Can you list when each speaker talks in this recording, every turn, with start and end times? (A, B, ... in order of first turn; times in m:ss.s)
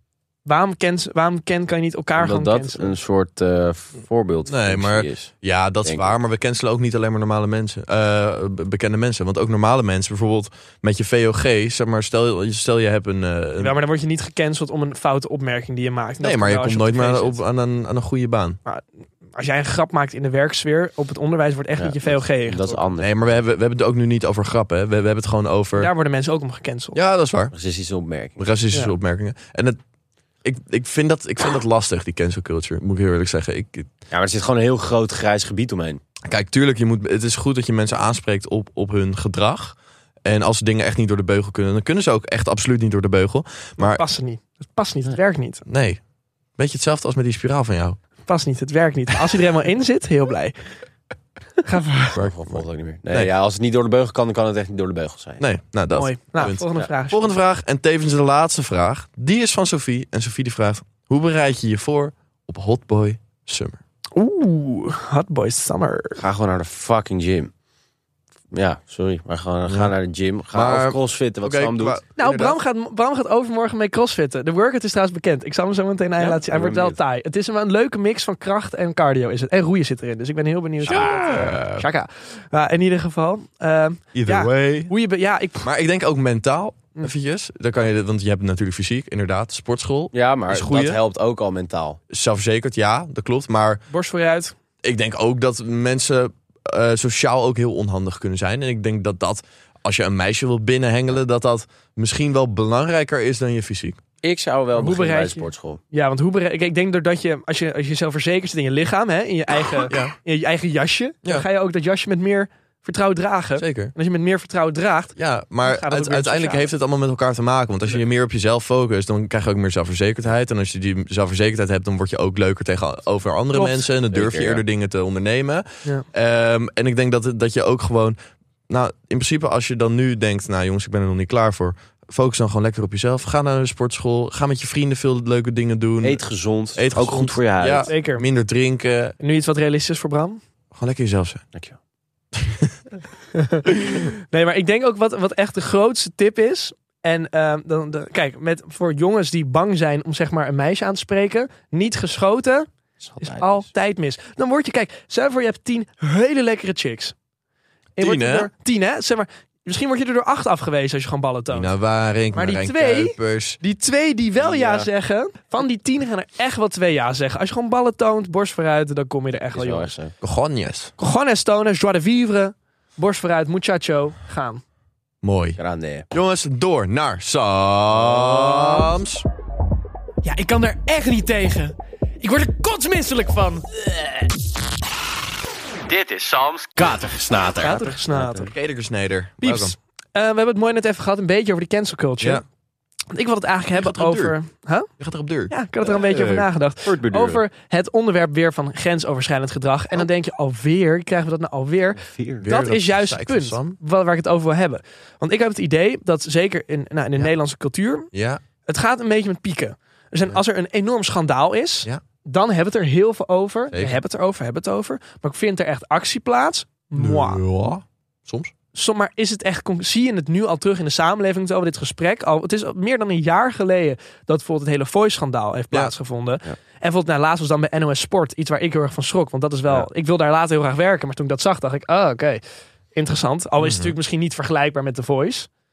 0:00.4-0:02.9 A
0:02.2-0:05.3 B
0:04.5-0:13.8 C
0:13.6-0:17.4 A
0:16.2-0:18.6 C
0:18.6-0:22.8 A
0:21.8-0:23.3 B
0:23.0-0:25.9 C
0:25.8-0:27.0 A
0:26.9-0:27.5 C
0:27.5-0:28.4 B
0:28.4-0:29.8 C
0:30.4-0:33.9 C
0:34.1-0:36.0 B
0:36.2-0:44.0 C
0:43.8-0:45.6 A
0:45.6-0:46.0 C
0:46.6-0:48.0 C
0:48.2-0:50.5 A
0:51.6-0:52.2 A
0:52.1-0:53.3 C
0:52.2-0:55.4 B
0:55.4-1:03.8 C
0:55.9-0:57.2 A
1:04.1-1:06.2 A
1:06.2-1:07.5 B
1:08.5-1:12.0 B
1:09.7-1:09.9 C
1:10.5-1:12.6 C
1:12.2-1:25.7 A
1:16.2-1:17.0 B
1:20.9-1:21.6 C
1:20.9-1:21.8 B
1:24.1-1:24.9 C
1:25.6-1:31.0 C
1:30.1-1:32.0 B
1:32.1-1:33.8 C
1:33.9-1:34.5 A
1:34.8-1:44.0 C
1:44.2-1:45.8 B
1:44.8-1:56.6 A
1:49.9-1:50.1 C
1:53.6-1:53.9 C
1:55.2-2:08.2 C
2:04.1-2:04.6 B
2:08.7-2:16.2 C
2:16.0-2:17.9 B
2:16.8-2:19.2 C
2:17.9-2:18.2 A
2:19.2-2:20.4 A
2:20.7-2:21.4 C
2:22.4-2:22.7 C
2:23.4-2:32.7 A
2:33.0-2:33.6 B
2:33.2-2:37.1 A
2:38.0-2:38.5 C
2:38.0-2:41.7 A
2:41.5-2:43.6 C
2:42.3-2:49.9 A
2:44.4-2:44.9 B
2:49.5-2:50.1 B
2:50.2-2:50.9 C
2:51.0-2:54.6 A
2:55.2-2:55.6 C
2:55.6-2:56.0 B
2:56.1-2:59.2 C
2:58.1-2:58.7 B
3:00.2-3:03.6 A
3:05.9-3:08.5 B
3:07.6-3:08.5 A
3:08.5-3:09.8 C
3:09.4-3:12.4 A
3:13.1-3:14.9 A
3:13.7-3:14.4 C
3:15.0-3:15.5 C
3:15.5-3:28.1 A
3:16.0-3:16.4 C
3:16.8-3:17.4 B
3:22.0-3:22.5 B
3:22.4-3:23.8 C
3:28.1-3:28.4 C
3:28.6-3:37.4 A
3:33.7-3:34.0 C
3:36.9-3:38.5 C
3:38.7-3:52.4 A
3:52.9-3:55.5 A
3:53.6-3:53.9 C